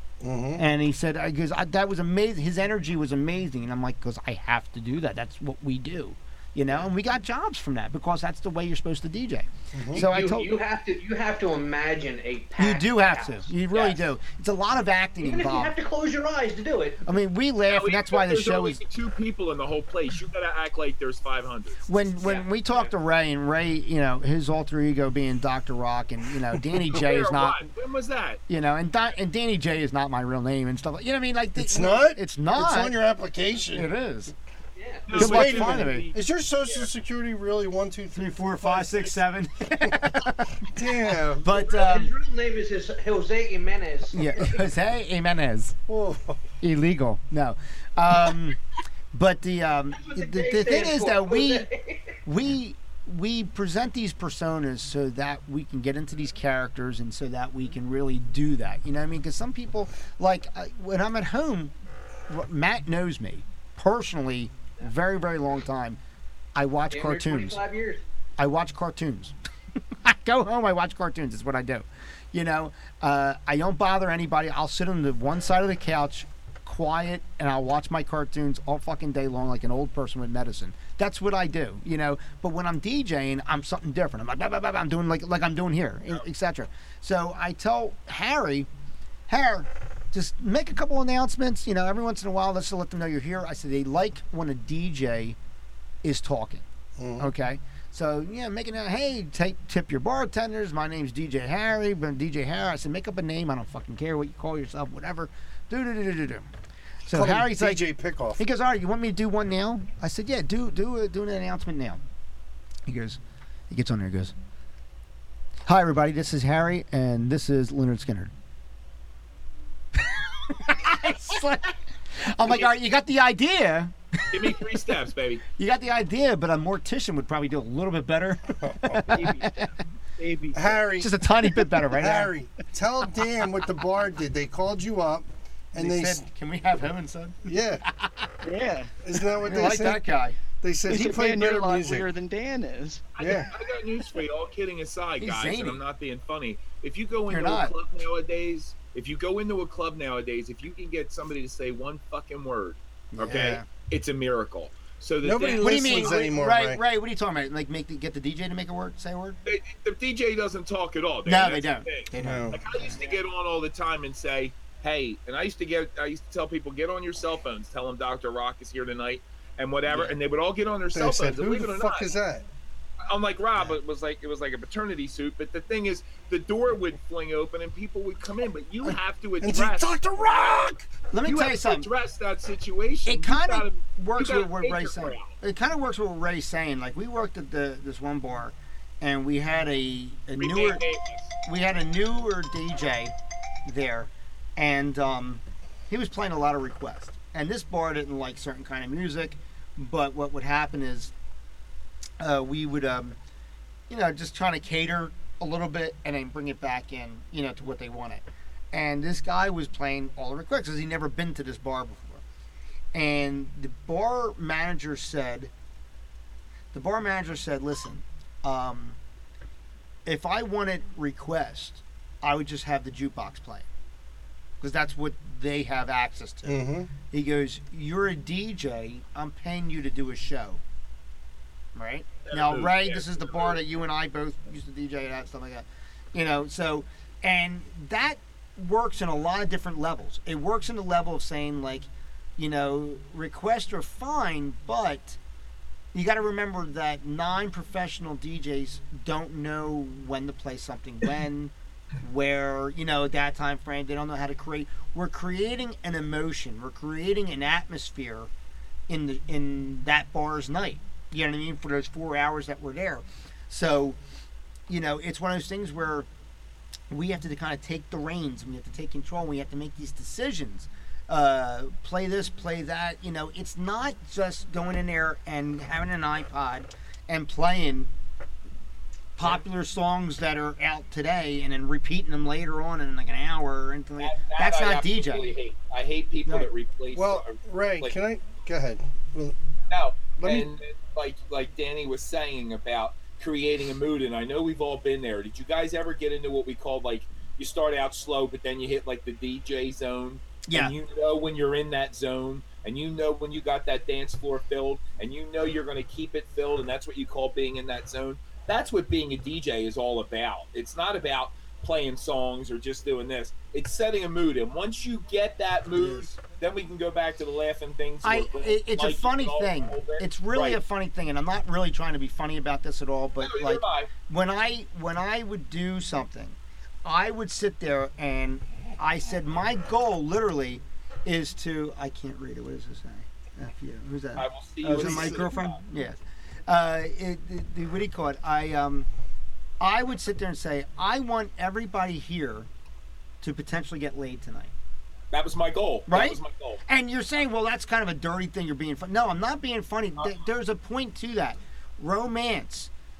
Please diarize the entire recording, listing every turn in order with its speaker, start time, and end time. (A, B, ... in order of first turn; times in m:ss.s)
0:00.2-0:00.6 A
0:00.6-0:10.6 B
0:09.7-0:10.0 A
0:09.9-0:14.0 C
0:12.6-0:15.7 B
0:15.2-0:17.0 C
0:17.0-0:18.8 B
0:17.7-0:22.9 D
0:21.9-0:27.6 B
0:26.9-0:28.4 D
0:28.5-0:33.0 B
0:31.5-0:33.9 A
0:33.7-0:34.3 B
0:34.8-0:35.1 C
0:35.1-0:36.9 D
0:35.1-0:39.2 A
0:35.1-0:36.1 B
0:38.1-0:42.1 B
0:40.6-0:41.5 A
0:41.5-0:44.5 C
0:44.1-0:45.8 B
0:45.9-0:46.4 A
0:46.6-0:48.6 B
0:49.1-0:51.7 B
0:49.9-0:52.2 C
0:52.2-1:01.7 B
1:02.3-1:06.0 B
1:06.5-1:07.6 B
1:06.9-1:08.0 C
1:08.4-1:09.3 B
1:10.0-1:28.7 B
1:29.3-1:35.4 B
1:36.0-1:36.6 B
1:37.0-1:37.3 A
1:37.2-1:46.5 B
1:47.0-1:47.8 B
1:47.1-1:48.4 A
1:48.4-1:52.0 B
1:52.8-1:54.3 B
1:55.6-1:58.3 B
2:00.0-2:04.6 B
2:04.3-2:05.4 D
2:05.6-2:09.7 B
2:08.6-2:09.2 A
2:09.0-2:10.8 E
2:10.5-2:11.1 A
2:11.0-2:12.3 B
2:11.8-2:16.2 A
2:15.8-2:18.3 B
2:17.4-2:17.8 A
2:18.4-2:18.9 E
2:19.0-2:20.0 A
2:19.4-2:20.4 B
2:20.6-2:22.1 A
2:20.9-2:23.2 E
2:23.1-2:36.3 D
2:23.2-2:23.5 A
2:25.2-2:25.8 B
2:27.3-2:27.7 B
2:33.1-2:33.7 B
2:33.2-2:33.6 A
2:35.2-2:36.8 A
2:35.5-2:39.4 B
2:39.4-2:52.1 D
2:41.2-2:43.1 B
2:42.2-2:42.5 A
2:49.9-2:50.1 B
2:50.9-2:52.4 A
2:53.1-3:00.6 D
2:58.8-3:00.9 A
3:01.1-3:01.9 B
3:01.2-3:05.3 D
3:03.0-3:10.8 B
3:10.4-3:11.3 D
3:11.4-3:13.1 B
3:13.6-3:21.1 B
3:22.2-3:23.2 B
3:23.9-3:32.2 B
3:32.9-3:35.5 B
3:36.7-3:39.0 B
3:40.0-3:43.7 B
3:44.6-3:50.6 B
3:46.4-3:46.9 A
3:51.7-4:05.2 B
3:52.2-3:53.6 D
4:05.9-4:18.3 B
4:18.9-4:24.0 B
4:24.7-4:26.1 B
4:26.9-4:37.9 B
4:39.2-4:45.4 B
4:44.0-4:48.0 D
4:46.9-4:49.4 A
4:49.7-5:20.6 D
4:50.2-4:50.5 A
5:00.5-5:00.8 B
5:18.0-5:38.9 B
5:23.2-5:23.9 D
5:34.2-5:35.6 D
5:39.6-5:42.5 B
5:43.2-5:44.5 B
5:45.1-5:46.6 D
5:45.9-5:52.7 B